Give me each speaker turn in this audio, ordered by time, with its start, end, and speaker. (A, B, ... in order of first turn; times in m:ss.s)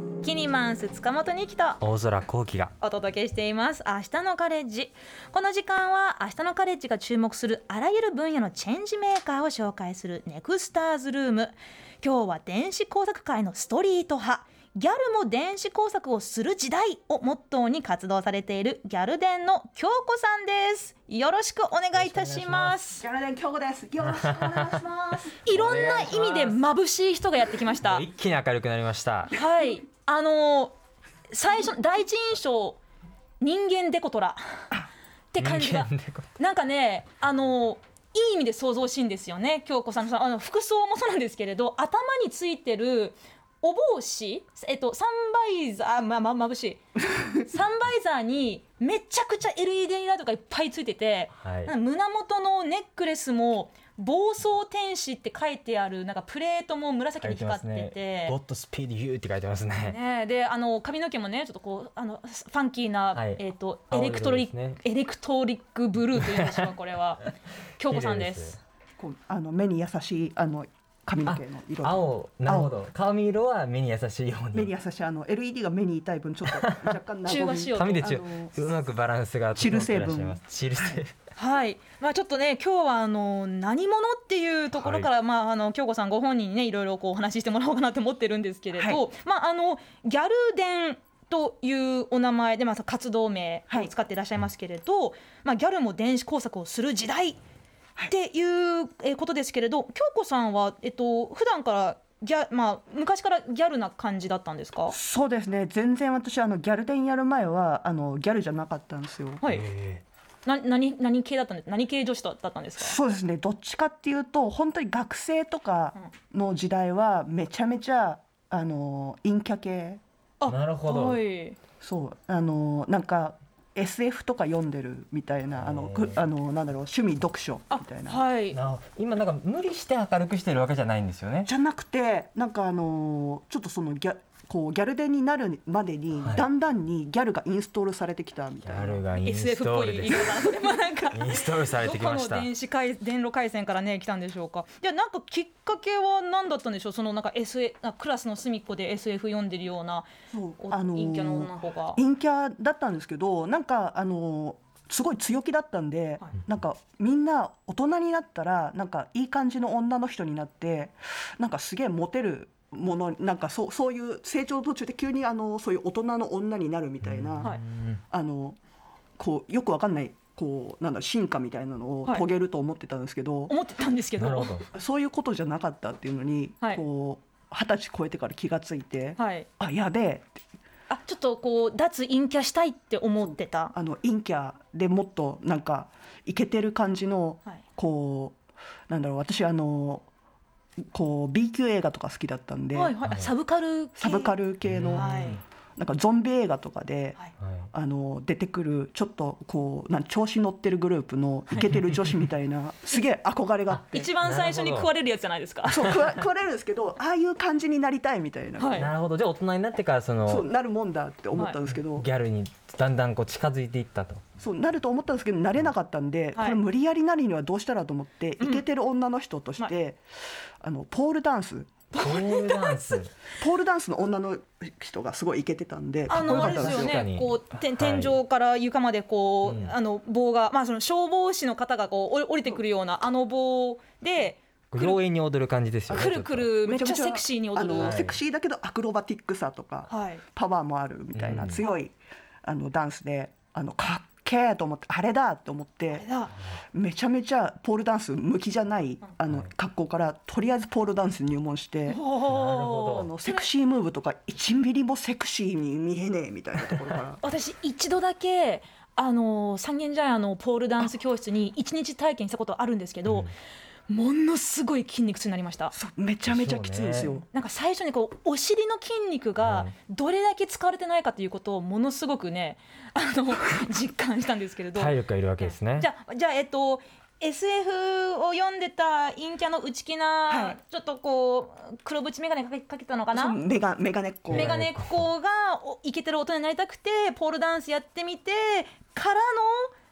0:00.2-0:01.8 A
0:01.8-0:02.7 B
0:02.8-0:23.0 A
0:22.0-0:22.8 B
0:23.0-0:25.4 C
0:24.0-0:24.8 B
0:25.4-0:28.0 A
0:25.5-0:26.6 B
0:27.8-0:29.4 B
0:29.3-0:30.7 A
0:31.3-0:32.8 A
0:33.4-0:34.7 A
0:35.3-0:46.8 A
0:35.4-0:36.3 B
0:47.4-0:58.4 A
0:51.4-0:51.7 B
0:57.2-1:00.0 B
0:59.8-1:08.6 A
1:03.2-1:04.8 B
1:06.2-1:06.7 B
1:07.8-1:08.5 B
1:09.0-1:12.7 C
1:11.3-1:14.7 B
1:14.5-1:18.5 C
1:16.5-1:16.9 B
1:17.2-1:18.2 A
1:17.8-1:21.1 B
1:19.6-1:21.0 C
1:21.4-1:37.4 A
1:24.8-1:25.1 B
1:28.8-1:29.0 C
1:38.1-1:45.0 A
1:44.9-1:49.4 C
1:49.5-1:50.0 B
1:50.5-1:53.0 A
1:52.8-2:00.0 C
2:00.4-2:01.6 A
2:00.5-2:01.2 B
2:01.8-2:08.2 C
2:05.6-2:06.2 B
2:07.7-2:08.6 A
2:08.5-2:11.5 B
2:11.5-2:19.0 C
2:18.6-2:20.5 B
2:19.2-2:30.1 A
2:21.1-2:22.5 B
2:30.3-2:47.6 C
2:30.6-2:32.0 A
2:47.0-2:48.0 B
2:48.1-2:48.6 C
2:49.2-2:53.5 C
2:53.5-2:54.6 A
2:54.2-2:54.7 B
2:54.7-3:00.4 C
2:59.2-2:59.5 A
3:00.9-3:03.7 A
3:03.7-3:08.4 C
3:08.9-3:10.1 C
3:10.9-3:13.0 C
3:12.7-3:14.4 A
3:13.0-3:13.3 B
3:14.0-3:17.2 C
3:14.6-3:15.4 B
3:15.0-3:15.4 A
3:17.4-3:17.7 B
3:17.7-3:24.1 C
3:21.6-3:22.1 B
3:23.7-3:24.9 B
3:23.9-3:25.9 A
3:25.6-3:28.9 C
3:28.6-3:28.9 A
3:28.8-3:30.5 B
3:30.3-3:32.1 C
3:31.7-3:34.2 B
3:34.4-3:40.0 C
3:40.6-3:41.8 C
3:41.9-3:43.0 A
3:42.0-3:43.1 B
3:43.4-3:47.0 C
3:46.1-3:55.0 A
3:46.1-3:48.2 B
3:49.4-3:49.8 B
3:54.7-3:56.5 B
3:55.9-3:58.0 A
3:56.6-4:06.1 C
3:57.8-3:58.2 B
3:59.9-4:00.2 A
4:01.2-4:01.6 B
4:05.9-4:06.3 A
4:06.7-4:12.0 C
4:11.9-4:13.5 A
4:12.2-4:13.1 B
4:12.8-4:17.2 C
4:17.2-4:23.3 A
4:23.9-4:25.7 A
4:25.7-4:27.2 C
4:26.3-4:27.2 B
4:27.3-4:43.4 A
4:29.4-4:29.7 B
4:34.8-4:35.9 B
4:40.3-4:40.6 C
4:43.1-4:44.5 C
4:44.3-4:45.1 B
4:44.3-4:49.7 A